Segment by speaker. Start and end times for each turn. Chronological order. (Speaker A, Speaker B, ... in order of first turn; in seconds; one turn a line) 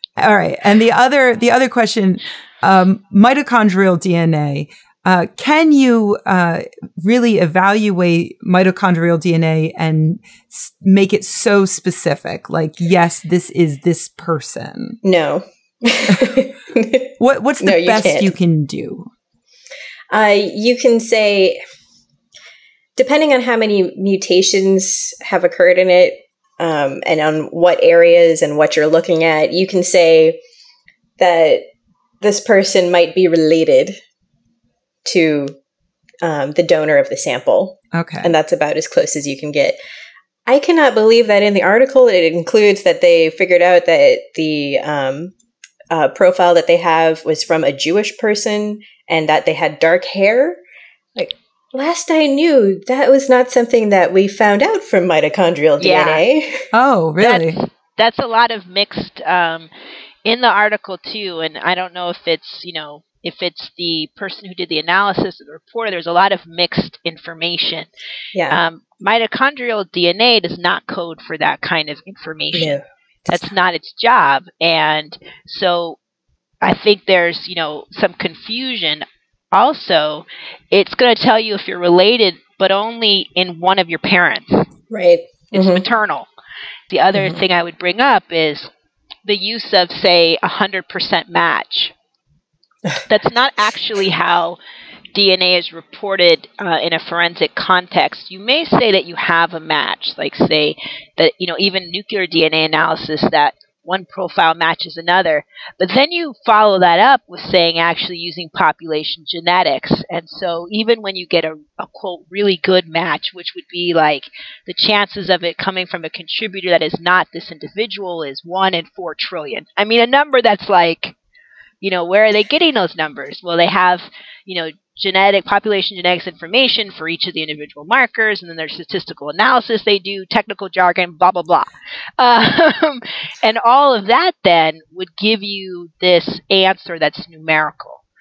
Speaker A: 0.2-15.0
Speaker B: 15.0-17.1
Speaker A: 17.2-19.1
Speaker B: 17.6-18.3
Speaker B: 20.1-21.6
Speaker B: 23.0-30.4
Speaker B: 31.2-31.6
Speaker B: 32.2-34.0
Speaker B: 35.0-35.5
Speaker B: 36.2-39.8
Speaker A: 37.9-38.3
Speaker B: 40.5-45.3
Speaker B: 45.9-50.6
Speaker B: 51.2-56.7
Speaker C: 55.8-56.2
Speaker A: 56.7-57.6
Speaker C: 57.2-59.7
Speaker C: 60.2-67.9
Speaker B: 68.3-68.6
Speaker C: 68.5-72.8
Speaker B: 72.5-73.5
Speaker C: 73.3-76.0
Speaker C: 76.6-84.7
Speaker B: 84.9-85.8
Speaker C: 85.5-86.3
Speaker C: 86.9-88.7
Speaker C: 89.3-91.9
Speaker C: 93.1-94.6
Speaker C: 95.1-121.1
Speaker C: 121.8-138.0